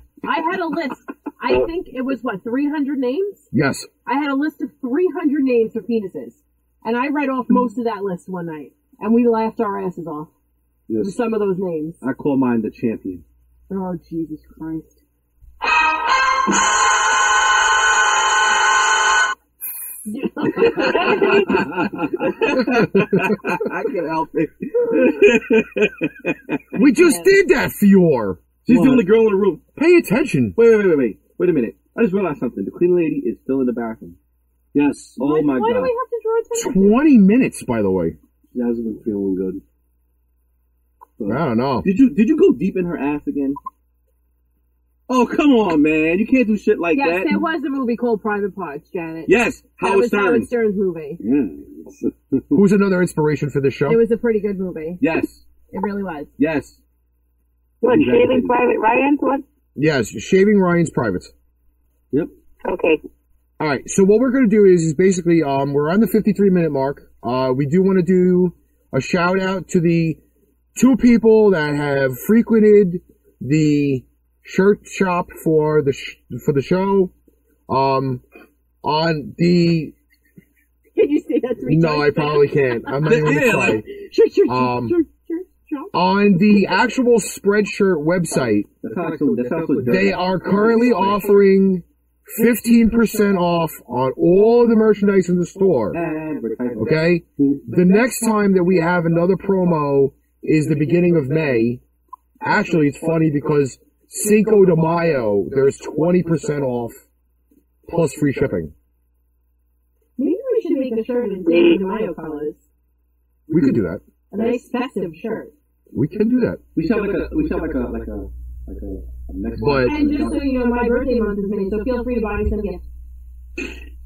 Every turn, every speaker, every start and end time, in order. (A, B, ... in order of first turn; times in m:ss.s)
0:00.2-0:03.4 A
0:03.5-0:03.9 B
0:04.0-0:10.3 A
0:10.9-0:11.1 C
0:11.0-0:12.0 A
0:12.0-0:13.2 D
0:13.7-0:15.0 A
0:20.1-0:21.5 A
0:20.6-0:26.6 D
0:26.7-0:28.4 B
0:26.8-0:27.3 A
0:28.6-0:29.6 D
0:28.7-0:29.1 C
0:29.8-0:30.6 B
0:30.6-0:34.2 D
0:34.7-0:35.2 C
0:35.2-0:35.9 D
0:35.2-0:37.0 A
0:36.5-0:38.2 B
0:38.5-0:39.6 C
0:41.2-0:41.9 B
0:41.8-0:43.6 D
0:45.1-0:47.4 D
0:46.9-0:51.2 A
0:49.2-0:50.5 D
0:51.2-0:52.6 C
0:52.5-0:54.0 B
0:53.8-0:55.0 A
0:55.0-0:55.4 D
0:55.7-0:56.3 A
0:56.4-0:56.8 D
0:57.8-0:59.4 E
0:57.8-0:58.5 D
0:59.8-1:01.3 B
1:02.6-1:03.0 E
1:03.6-1:10.2 B
1:10.7-1:17.1 B
1:17.7-1:18.2 B
1:18.8-1:19.9 B
1:21.0-1:25.9 A
1:21.6-1:23.9 B
1:23.0-1:23.8 D
1:24.4-1:25.0 B
1:25.9-1:28.7 B
1:28.4-1:31.2 D
1:29.8-1:36.0 B
1:35.9-1:37.2 D
1:36.8-1:41.8 B
1:37.4-1:37.7 C
1:42.4-1:47.0 B
1:47.9-1:48.7 B
1:50.2-1:52.6 A
1:51.5-1:51.8 E
1:53.5-1:54.0 B
1:54.3-1:55.5 A
1:55.9-1:56.6 B
1:56.7-2:00.5 D
1:59.6-2:00.0 B
1:59.8-2:02.8 A